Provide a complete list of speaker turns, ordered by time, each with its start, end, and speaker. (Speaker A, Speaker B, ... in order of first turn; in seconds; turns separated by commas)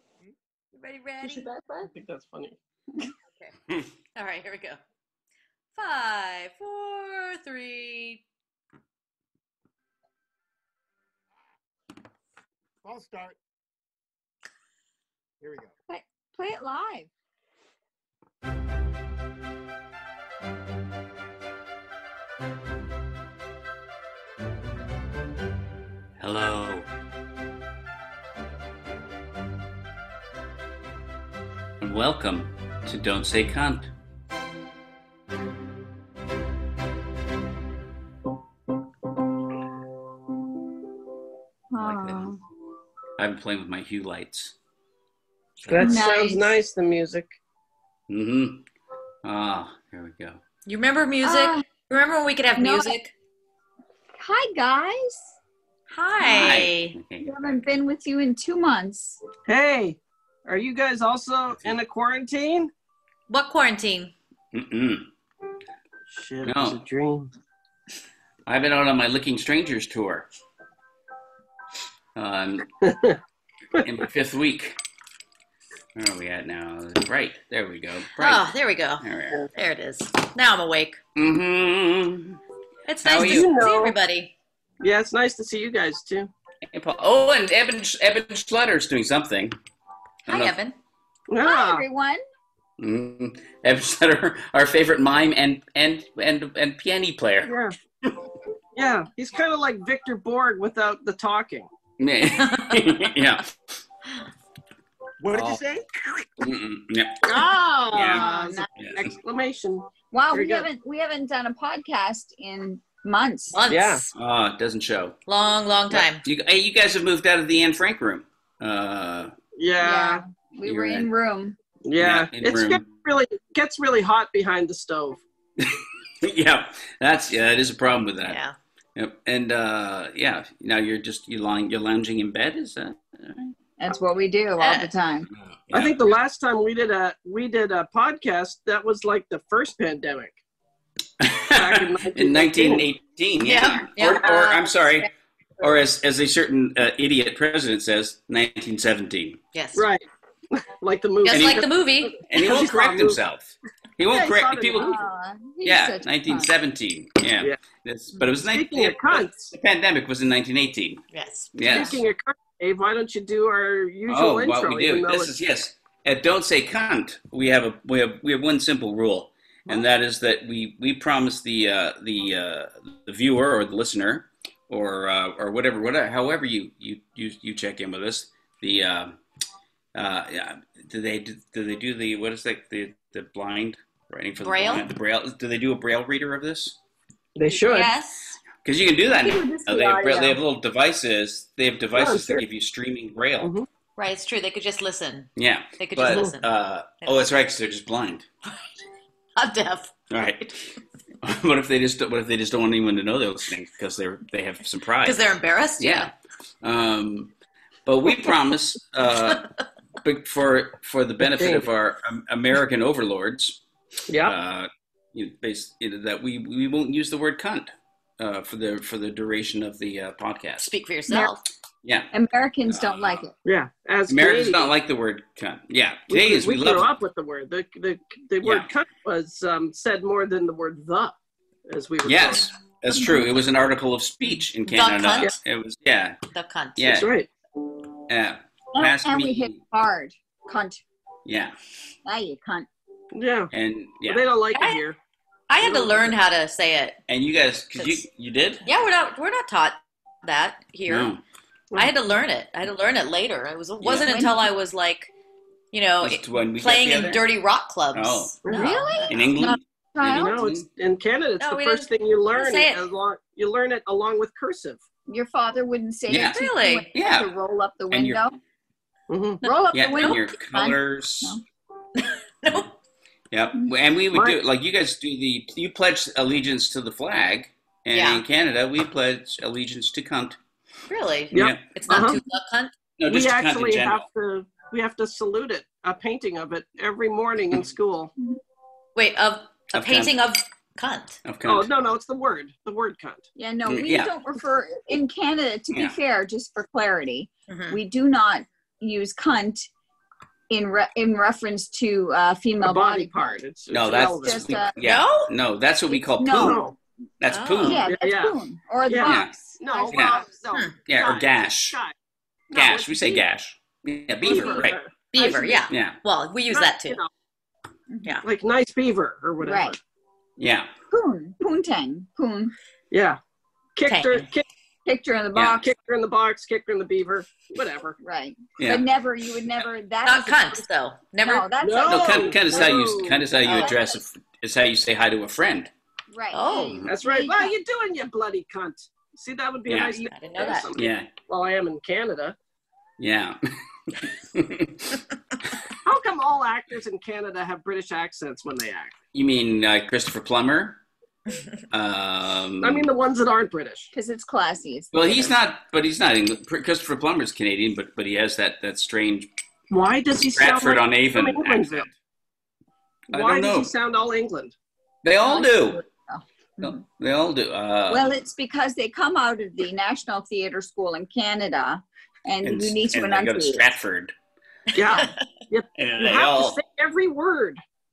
Speaker A: 0.8-1.5, Speaker B: 1.2-2.5, Speaker A: 4.1-4.8, Speaker A: 5.7-8.2, Speaker C: 12.8-13.4, Speaker C: 15.4-15.7, Speaker D: 15.9-17.1, Speaker E: 26.2-26.9, Speaker E: 31.8-33.9, Speaker D: 41.7-42.4, Speaker E: 41.8-42.3, Speaker E: 43.2-44.5, Speaker E: 45.6-46.0, Speaker B: 45.7-47.3, Speaker D: 45.8-46.5, Speaker E: 48.1-48.6, Speaker E: 49.2-50.4, Speaker A: 50.6-53.1, Speaker D: 51.2-51.6, Speaker D: 52.5-52.9, Speaker D: 54.2-55.3, Speaker A: 55.9-57.0, Speaker E: 56.2-57.5, Speaker D: 57.2-59.2, Speaker B: 59.5-62.7, Speaker A: 63.3-64.1, Speaker E: 64.5-65.1, Speaker B: 66.1-67.3, Speaker E: 66.4-66.8, Speaker E: 68.5-70.3, Speaker E: 72.1-72.7, Speaker B: 72.8-73.2, Speaker E: 73.8-74.8, Speaker E: 75.9-78.5, Speaker A: 78.2-81.0, Speaker E: 79.0-79.4, Speaker E: 81.2-82.4, Speaker A: 82.8-84.3, Speaker E: 83.0-83.5, Speaker B: 83.1-84.0, Speaker B: 84.8-86.3, Speaker E: 86.7-89.5, Speaker A: 90.2-90.8, Speaker E: 90.3-90.6, Speaker B: 91.3-91.8, Speaker D: 91.4-92.2, Speaker E: 92.8-98.1, Speaker B: 97.4-97.8, Speaker B: 98.7-101.7, Speaker E: 102.0-103.5, Speaker A: 102.4-102.7, Speaker C: 105.2-106.3, Speaker E: 105.3-105.6, Speaker E: 106.4-107.2, Speaker B: 107.2-110.7, Speaker E: 107.9-108.2, Speaker D: 108.0-108.7, Speaker E: 108.8-109.1, Speaker D: 110.1-113.6, Speaker A: 113.5-114.1, Speaker B: 113.7-114.0, Speaker E: 114.1-115.2, Speaker A: 115.3-116.2, Speaker E: 115.9-119.3, Speaker B: 119.5-120.2, Speaker D: 119.8-121.5, Speaker E: 120.6-121.1, Speaker B: 121.8-125.2, Speaker E: 122.0-122.8, Speaker E: 125.6-128.4, Speaker A: 128.2-128.6, Speaker E: 128.9-133.5, Speaker D: 133.8-135.3, Speaker A: 134.6-134.9, Speaker E: 135.3-136.0, Speaker B: 135.7-140.3, Speaker E: 141.2-149.4, Speaker B: 141.5-142.8, Speaker A: 143.4-145.1, Speaker A: 149.5-149.8, Speaker B: 149.7-153.2, Speaker A: 151.2-152.2, Speaker E: 151.3-151.7, Speaker E: 152.3-154.9, Speaker B: 154.1-155.0, Speaker D: 154.8-156.5, Speaker E: 155.6-162.0, Speaker B: 158.4-159.5, Speaker A: 161.1-162.0, Speaker B: 161.7-165.3, Speaker E: 164.1-179.2, Speaker E: 179.9-186.8, Speaker A: 184.4-184.8, Speaker B: 187.3-187.9, Speaker A: 187.6-188.4, Speaker E: 188.6-193.5, Speaker D: 189.2-190.4, Speaker B: 191.9-192.4, Speaker B: 193.4-193.7, Speaker A: 194.0-196.5, Speaker E: 195.4-198.3, Speaker A: 197.0-197.3, Speaker A: 199.3-199.9, Speaker E: 200.1-205.2, Speaker A: 205.0-206.1, Speaker E: 205.8-206.1, Speaker E: 206.6-207.3, Speaker E: 207.8-209.5, Speaker E: 210.0-213.6, Speaker B: 211.2-211.7, Speaker B: 214.1-214.3, Speaker E: 214.2-220.7, Speaker A: 220.6-221.4, Speaker D: 221.1-221.3, Speaker E: 221.8-222.1, Speaker D: 222.1-223.3, Speaker E: 222.7-223.2, Speaker B: 223.4-224.6, Speaker E: 224.1-226.9, Speaker B: 226.1-231.1, Speaker E: 228.4-228.7, Speaker B: 231.7-232.5, Speaker E: 232.0-236.2, Speaker A: 234.7-235.3, Speaker A: 236.3-237.1, Speaker E: 236.8-237.1, Speaker B: 236.9-237.3, Speaker E: 238.1-239.6, Speaker D: 238.7-240.8, Speaker E: 241.2-241.5, Speaker D: 242.1-242.7, Speaker B: 243.1-243.5, Speaker E: 243.5-244.2, Speaker B: 244.1-245.0, Speaker A: 244.5-244.8, Speaker A: 245.5-247.0, Speaker B: 245.6-246.2, Speaker E: 247.1-248.6, Speaker A: 248.6-251.1, Speaker E: 250.9-251.2, Speaker A: 251.7-255.1, Speaker E: 253.8-254.1, Speaker D: 254.0-254.5, Speaker A: 255.7-259.6, Speaker E: 256.0-257.2, Speaker E: 257.9-258.3, Speaker B: 258.4-258.7, Speaker D: 258.5-260.5, Speaker E: 259.1-260.6, Speaker B: 260.1-264.8, Speaker A: 261.4-262.8, Speaker D: 265.1-268.4, Speaker E: 266.1-266.4, Speaker A: 266.1-266.9, Speaker E: 266.9-267.3, Speaker E: 267.9-268.2, Speaker B: 269.1-269.4, Speaker D: 269.4-271.4, Speaker A: 269.4-270.2, Speaker E: 269.7-271.4, Speaker A: 271.9-272.7, Speaker E: 273.3-280.4, Speaker B: 274.1-274.4, Speaker A: 277.9-278.2, Speaker A: 280.9-282.7, Speaker E: 281.3-281.6, Speaker B: 281.3-282.2, Speaker E: 283.0-284.0, Speaker B: 283.1-288.1, Speaker A: 288.9-291.2, Speaker E: 289.7-290.1, Speaker E: 291.2-291.7, Speaker B: 291.4-293.2, Speaker D: 293.4-299.7, Speaker E: 293.6-294.1, Speaker A: 297.5-297.8, Speaker D: 300.5-304.7, Speaker B: 302.6-304.3, Speaker E: 303.7-306.6, Speaker A: 304.8-305.3, Speaker D: 305.9-306.7, Speaker B: 306.3-306.7, Speaker E: 307.2-307.9, Speaker A: 307.3-307.8, Speaker D: 307.6-310.4, Speaker B: 307.8-311.9, Speaker E: 309.0-309.3, Speaker E: 309.9-310.2, Speaker E: 310.9-311.8, Speaker B: 312.5-313.2, Speaker E: 312.5-314.8, Speaker B: 314.2-315.6, Speaker A: 315.1-317.0, Speaker E: 315.7-316.0, Speaker B: 316.5-317.1, Speaker B: 318.2-319.8, Speaker D: 319.4-319.8, Speaker E: 320.4-320.7, Speaker D: 320.9-322.5, Speaker B: 322.9-323.2, Speaker B: 323.8-324.4, Speaker A: 323.9-324.3, Speaker D: 324.9-325.7, Speaker B: 325.5-328.0, Speaker D: 328.0-330.6, Speaker E: 328.6-328.8, Speaker A: 330.0-331.5, Speaker D: 331.2-332.7, Speaker B: 331.6-333.2, Speaker E: 331.9-335.7, Speaker A: 333.4-333.8, Speaker D: 333.4-334.0, Speaker D: 336.1-337.5, Speaker A: 336.3-336.9, Speaker B: 336.9-342.4, Speaker E: 339.7-340.1, Speaker A: 339.9-340.7, Speaker E: 340.7-341.1, Speaker E: 343.0-345.0, Speaker B: 345.8-348.9, Speaker E: 349.1-350.8, Speaker E: 351.7-352.9, Speaker B: 352.6-353.9, Speaker D: 353.9-355.3, Speaker E: 354.9-359.3, Speaker B: 359.7-361.9, Speaker E: 360.3-361.9, Speaker E: 363.1-363.7, Speaker B: 363.1-364.5, Speaker E: 365.0-365.8, Speaker D: 365.2-366.8, Speaker E: 366.6-368.1, Speaker D: 367.9-373.6, Speaker E: 372.4-374.1, Speaker A: 374.7-375.1, Speaker B: 374.7-377.6, Speaker D: 374.8-375.1, Speaker E: 375.8-376.6